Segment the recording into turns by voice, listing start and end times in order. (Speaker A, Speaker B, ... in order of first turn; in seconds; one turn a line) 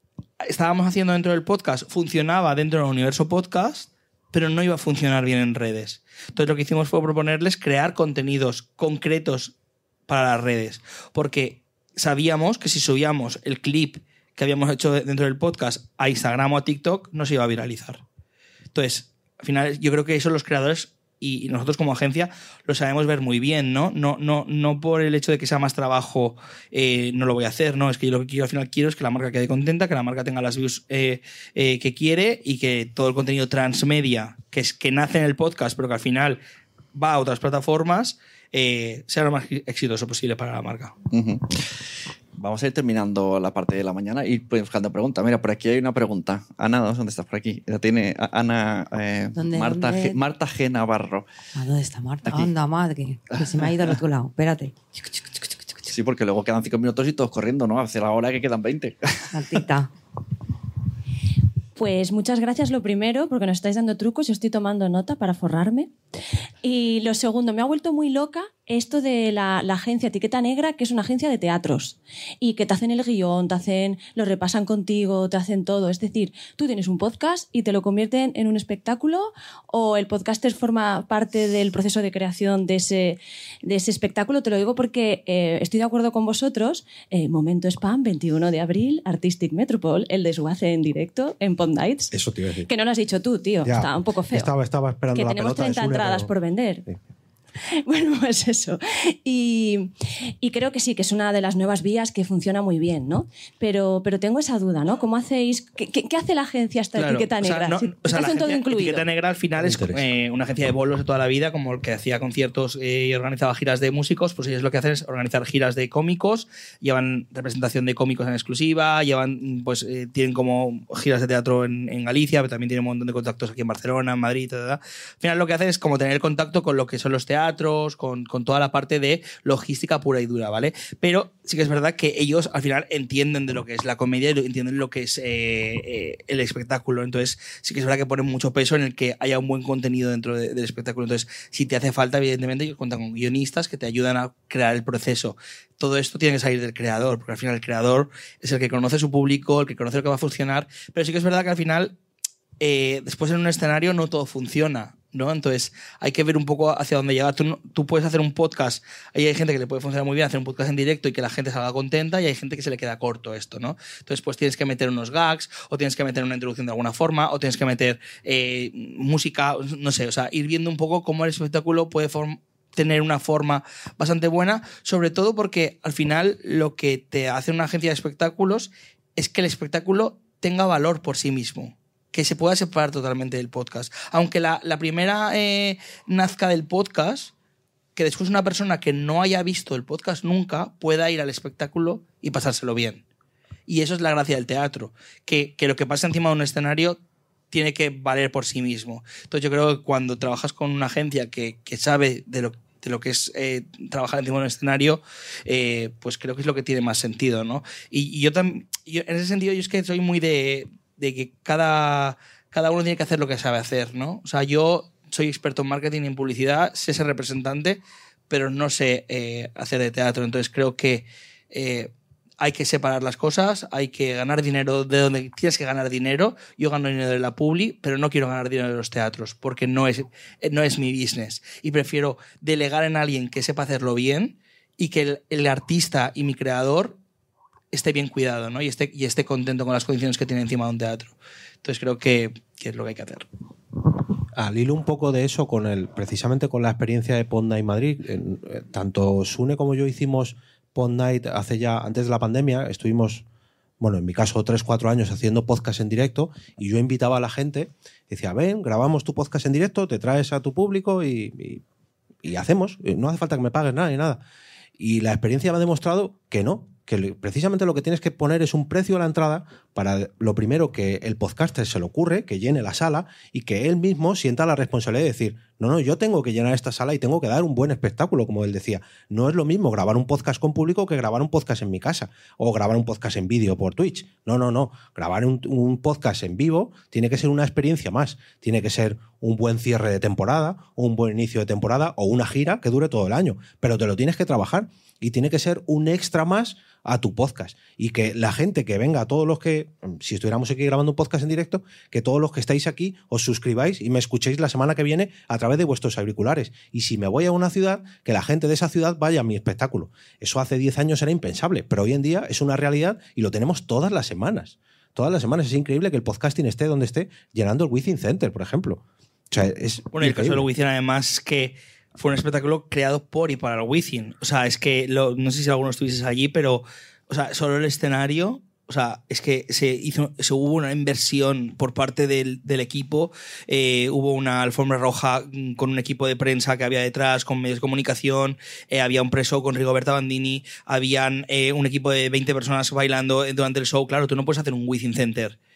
Speaker A: 0.4-9.5
Speaker A: 10.1-18.0
Speaker A: 18.7-36.4
Speaker A: 36.9-40.9
Speaker B: 41.1-51.2
Speaker C: 49.3-50.2
Speaker C: 51.5-55.9
Speaker B: 52.2-52.5
Speaker B: 53.3-53.9
Speaker B: 55.9-59.6
Speaker C: 59.3-59.9
Speaker D: 61.8-65.9
Speaker D: 66.6-92.1
Speaker E: 92.1-92.7
Speaker D: 92.6-94.5
Speaker E: 93.6-96.3
Speaker D: 95.1-96.8
Speaker D: 97.8-109.0
Speaker A: 107.0-151.9
Speaker E: 109.6-110.0
Speaker A: 152.6-187.3
Speaker A: 187.9-193.0
Speaker A: 193.7-197.0
Speaker A: 197.5-236.9
Speaker A: 237.7-243.3
Speaker E: 244.3-253.2
Speaker E: 253.8-261.6
Speaker E: 262.2-264.2
Speaker E: 264.8-320.4
Speaker A: 319.9-345.4